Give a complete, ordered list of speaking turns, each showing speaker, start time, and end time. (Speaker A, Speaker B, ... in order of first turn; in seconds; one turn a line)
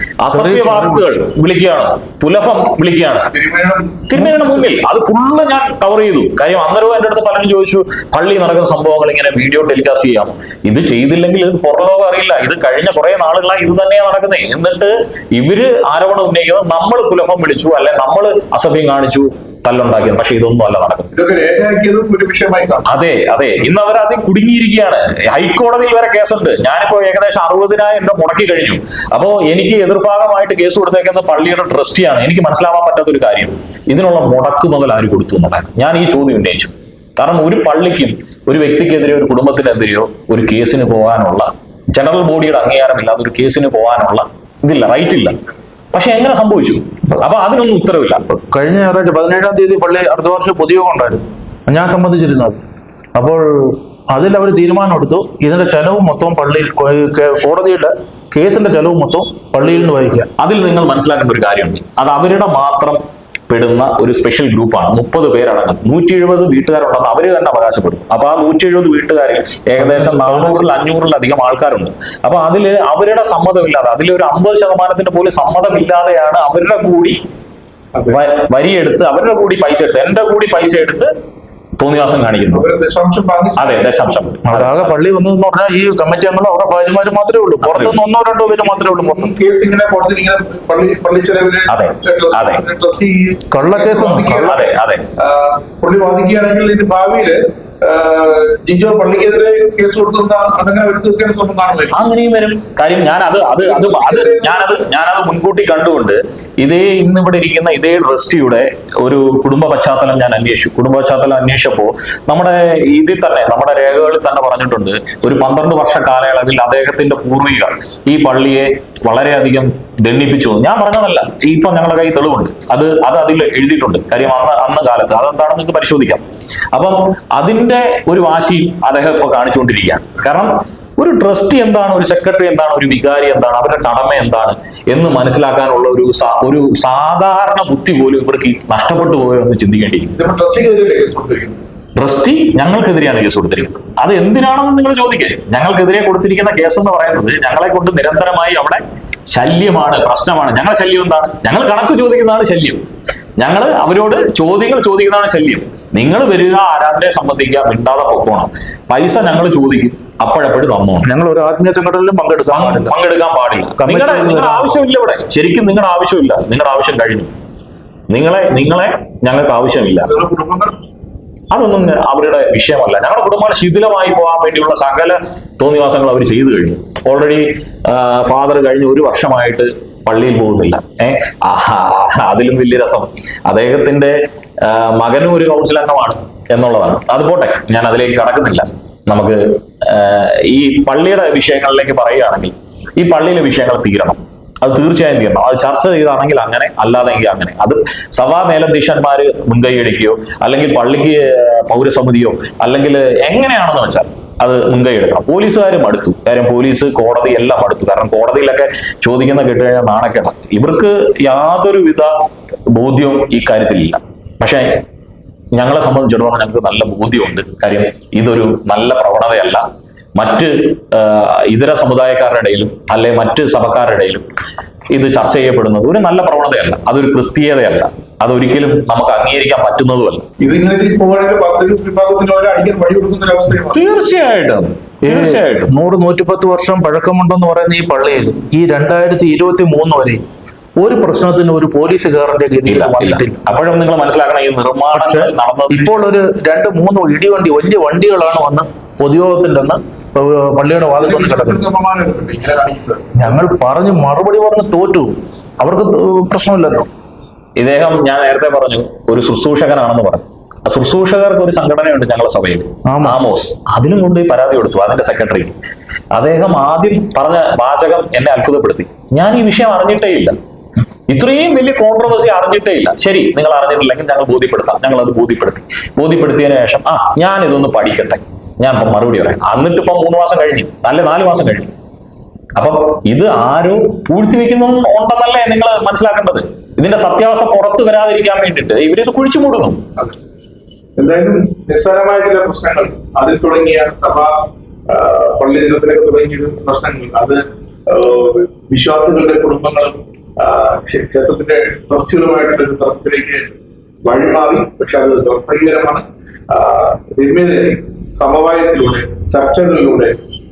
Speaker A: 0.2-3.3
Speaker B: 0.3-1.0
Speaker C: 3.3-4.7
Speaker A: 4.1-21.1
Speaker C: 21.1-22.9
Speaker A: 22.8-45.4
Speaker A: 45.9-48.2
Speaker B: 48.3-52.6
Speaker B: 53.1-60.3
Speaker A: 60.4-77.2
Speaker B: 69.8-70.7
Speaker A: 78.1-81.1
Speaker A: 81.8-82.7
Speaker C: 82.5-84.0
Speaker A: 83.6-84.9
Speaker B: 84.5-89.3
Speaker A: 87.6-88.0
Speaker C: 88.5-102.0
Speaker A: 91.7-92.6
Speaker B: 93.5-94.6
Speaker A: 94.4-95.0
Speaker A: 101.9-126.2
Speaker C: 103.6-104.7
Speaker A: 126.7-140.1
Speaker C: 140.2-141.6
Speaker A: 141.9-152.8
Speaker A: 153.4-161.1
Speaker B: 161.0-162.9
Speaker A: 162.5-167.3
Speaker B: 163.8-164.8
Speaker A: 168.1-170.1
Speaker C: 170.0-170.8
Speaker A: 171.5-212.1
Speaker A: 212.7-214.8
Speaker A: 215.5-219.6
Speaker A: 220.2-224.2
Speaker A: 224.9-230.2
Speaker C: 230.4-233.9
Speaker A: 233.7-235.7
Speaker B: 235.0-240.2
Speaker B: 240.8-243.4
Speaker A: 242.6-246.0
Speaker B: 244.9-251.6
Speaker C: 251.0-253.4
Speaker B: 253.2-256.9
Speaker A: 257.6-265.6
Speaker B: 262.9-263.3
Speaker A: 266.1-270.3
Speaker A: 271.1-281.7
Speaker A: 282.6-289.8
Speaker C: 291.0-303.5
Speaker C: 304.0-310.1